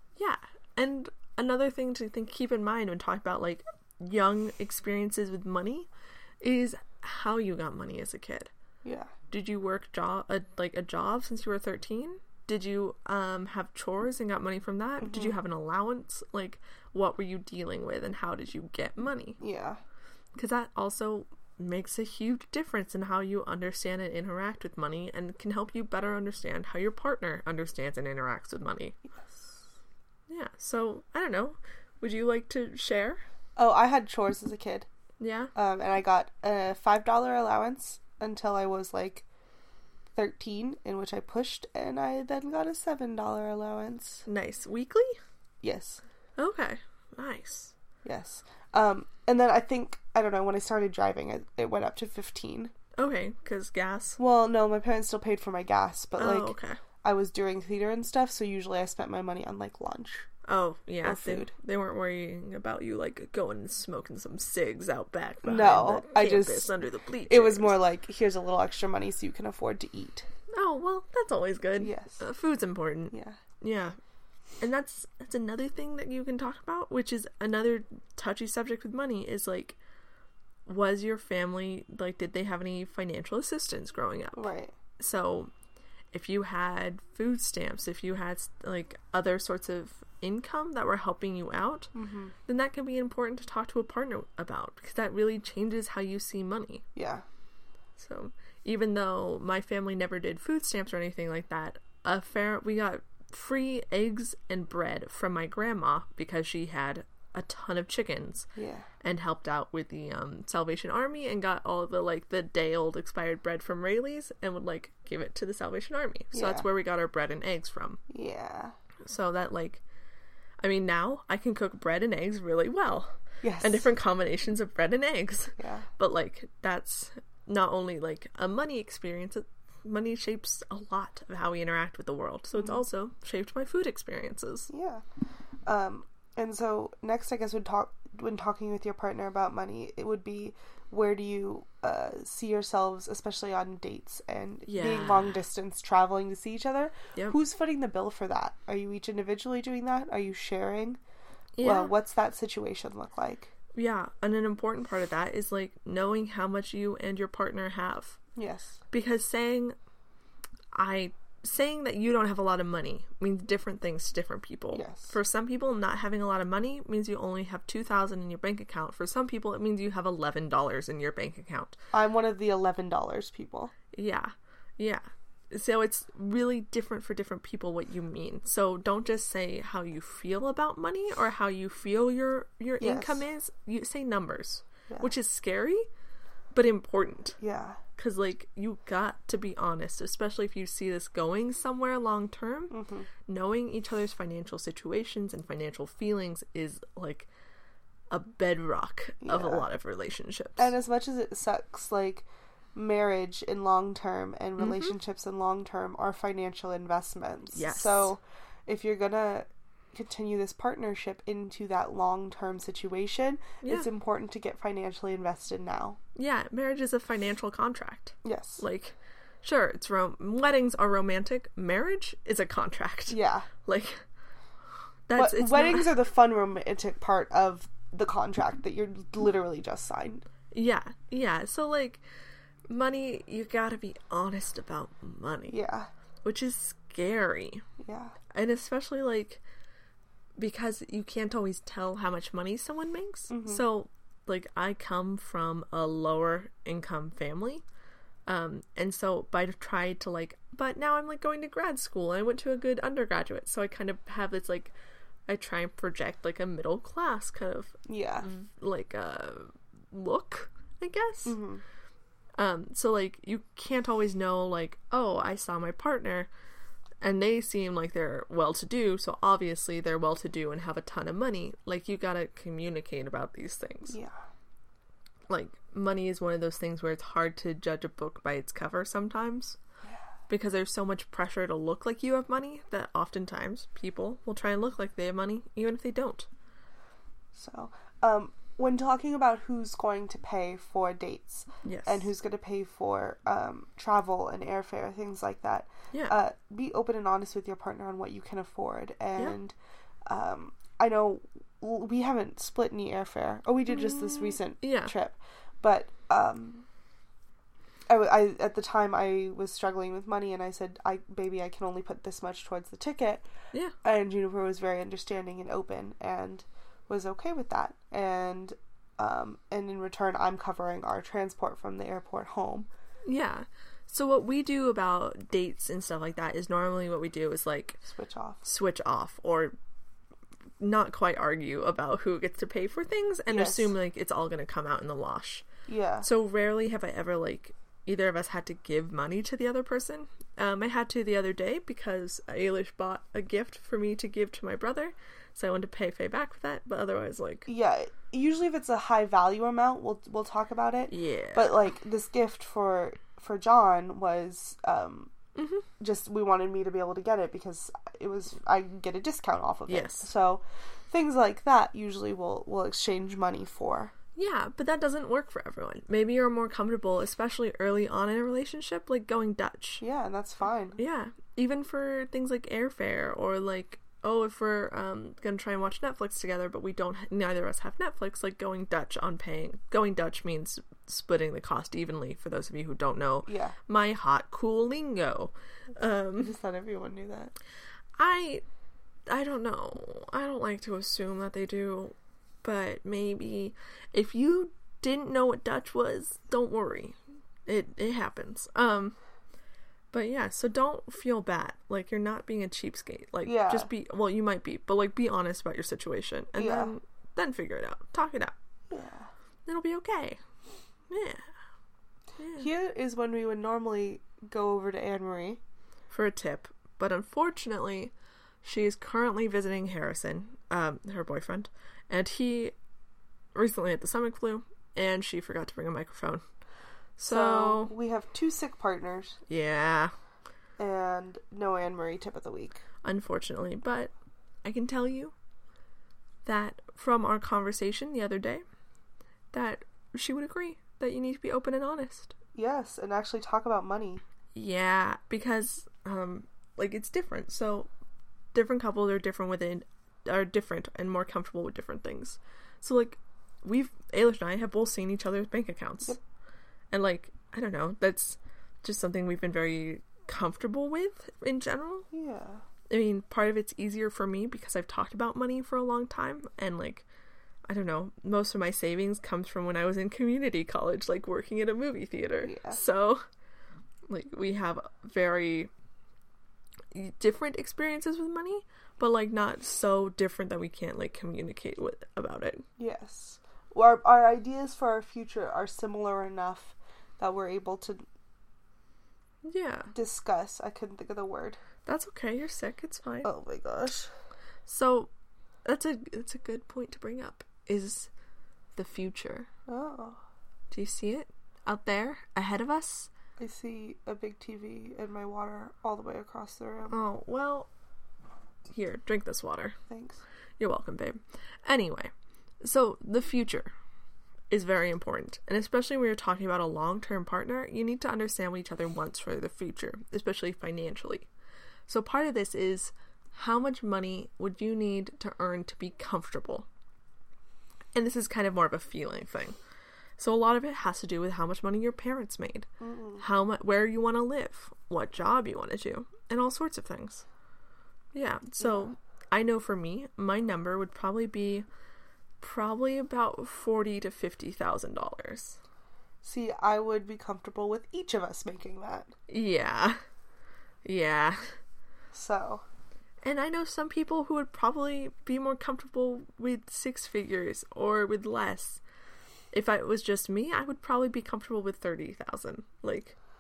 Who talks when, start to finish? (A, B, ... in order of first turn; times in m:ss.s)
0:00.2-0:05.9 A
0:06.4-0:08.5 A
0:08.8-0:09.1 B
0:09.3-0:19.4 A
0:15.0-0:15.4 B
0:19.4-0:19.8 B
0:20.4-0:29.0 A
0:29.1-0:29.6 B
0:30.3-0:33.2 A
0:33.6-0:34.9 B
0:35.2-0:35.5 A
0:35.6-0:39.3 B
0:40.2-0:44.2 B
0:44.3-0:45.2 A
0:45.6-0:46.0 B
0:46.4-0:47.7 A
0:48.0-0:52.7 B
0:53.0-0:54.2 A
0:54.2-1:00.3 B
0:56.2-0:56.8 A
1:00.5-1:07.8 A
1:01.0-1:01.5 B
1:05.4-1:06.7 B
1:07.3-1:10.3 B
1:10.5-1:14.0 A
1:11.8-1:12.2 B
1:13.1-1:13.4 B
1:14.6-1:19.8 A
1:20.7-1:25.5 A
1:24.4-1:24.8 B
1:26.1-1:31.9 A
1:32.0-1:32.3 B
1:32.5-1:36.8 A
1:37.0-1:37.2 B
1:38.0-1:48.5 A
1:48.6-1:48.9 B
1:49.0-1:58.0 A
1:56.3-1:56.7 B
1:58.1-1:58.7 B
1:59.0-1:59.8 A
2:00.6-2:14.7 A
2:03.4-2:03.9 B
2:05.6-2:05.9 B
2:12.5-2:12.8 B
2:14.7-2:15.0 B
2:15.7-2:31.0 B
2:24.7-2:25.4 A
2:31.6-2:31.9 A
2:31.6-2:33.5 B
2:33.8-2:38.2 A
2:38.4-2:38.8 B
2:38.9-2:39.7 A
2:40.8-2:51.8 A
2:44.7-2:45.2 B
2:51.9-2:53.7 B
2:53.9-3:05.9 A
3:02.8-3:03.3 B
3:06.5-3:07.4 A
3:07.4-3:07.8 B
3:08.0-3:12.8 A
3:12.7-3:13.1 B
3:13.3-3:17.3 A
3:18.1-3:20.7 A
3:19.2-3:19.7 B
3:20.6-3:36.0 B
3:24.6-3:25.0 A
3:27.5-3:28.1 A
3:33.6-3:33.9 A
3:36.2-3:44.0 A
3:38.2-3:38.6 B
3:43.1-3:43.5 B
3:45.1-3:46.0 A
3:45.2-3:50.2 B
3:50.5-3:52.0 A
3:52.7-3:55.6 A
3:55.5-3:55.9 B
3:56.2-3:57.6 A
3:57.8-3:58.2 B
3:58.3-3:59.4 A
4:00.4-4:07.6 A
4:03.3-4:03.6 B
4:08.3-4:14.7 A
4:15.3-4:21.4 A
4:17.9-4:18.3 B
4:21.3-4:21.6 B
4:22.4-4:26.3 A
4:27.0-4:34.0 A
4:33.9-4:34.2 B
4:35.3-4:39.6 A
4:40.3-4:46.3 A
4:47.4-4:59.6 B
4:51.6-4:52.1 A
5:00.1-5:06.6 B
5:03.9-5:04.9 A
5:07.9-5:13.3 B
5:13.8-5:22.7 B
5:23.0-5:27.8 A
5:27.9-5:28.4 B
5:28.4-5:29.6 A
5:30.6-5:35.4 A
5:33.3-5:33.8 B
5:35.7-5:36.1 B
5:36.0-5:47.5 A
5:47.5-5:55.1 B
5:50.9-5:51.6 A
5:55.4-5:55.7 A
5:55.8-6:03.9 B
5:59.7-6:00.1 A
6:04.2-6:09.8 A
6:09.8-6:10.8 B
6:10.8-6:26.4 A
6:23.3-6:23.6 B
6:26.2-6:27.3 B
6:28.0-6:28.4 A
6:29.1-6:39.0 A
6:39.9-6:48.3 A
6:43.2-6:43.7 B
6:46.4-6:46.8 B
6:48.7-6:49.1 B
6:49.5-6:50.2 A
6:50.9-6:51.2 A
6:52.2-6:52.5 A
6:52.4-6:55.4 B
6:55.9-7:02.5 A
7:03.4-7:06.2 A
7:07.0-7:07.7 A
7:07.1-7:09.2 B
7:09.3-7:09.9 A
7:10.6-7:12.6 B
7:12.8-7:13.9 A
7:14.4-7:15.1 A
7:16.2-7:18.4 A
7:19.3-7:22.2 A
7:22.4-7:24.0 B
7:24.4-7:27.7 A
7:28.3-7:36.0 A
7:36.7-7:41.9 A
7:41.9-7:42.4 B
7:42.7-7:46.9 A
7:47.5-7:53.0 A
7:52.2-7:52.6 B
7:53.9-7:55.5 A
7:56.7-8:02.4 A
8:02.6-8:07.8 B
8:09.2-8:09.7 A
8:09.7-8:11.4 B
8:11.7-8:13.1 A
8:13.0-8:13.9 B
8:14.5-8:14.9 A
8:15.4-8:17.9 A
8:18.6-8:19.3 A
8:19.5-8:20.0 B
8:20.5-8:22.9 A
8:23.2-8:26.8 B
8:26.7-8:27.5 A
8:28.5-8:29.6 A
8:29.7-8:30.0 B
8:30.4-8:31.9 A
8:32.4-8:33.5 A
8:34.3-8:41.1 A
8:41.7-8:46.5 A
8:47.8-8:49.4 A
8:50.0-8:57.0 A
8:52.6-8:53.0 B
8:57.9-9:01.5 A
8:58.4-8:58.7 B
9:02.2-9:05.4 A
9:06.0-9:08.9 B
9:09.1-9:09.8 A
9:10.6-9:11.4 A
9:11.9-9:12.4 B
9:13.0-9:18.6 A
9:19.3-9:23.0 A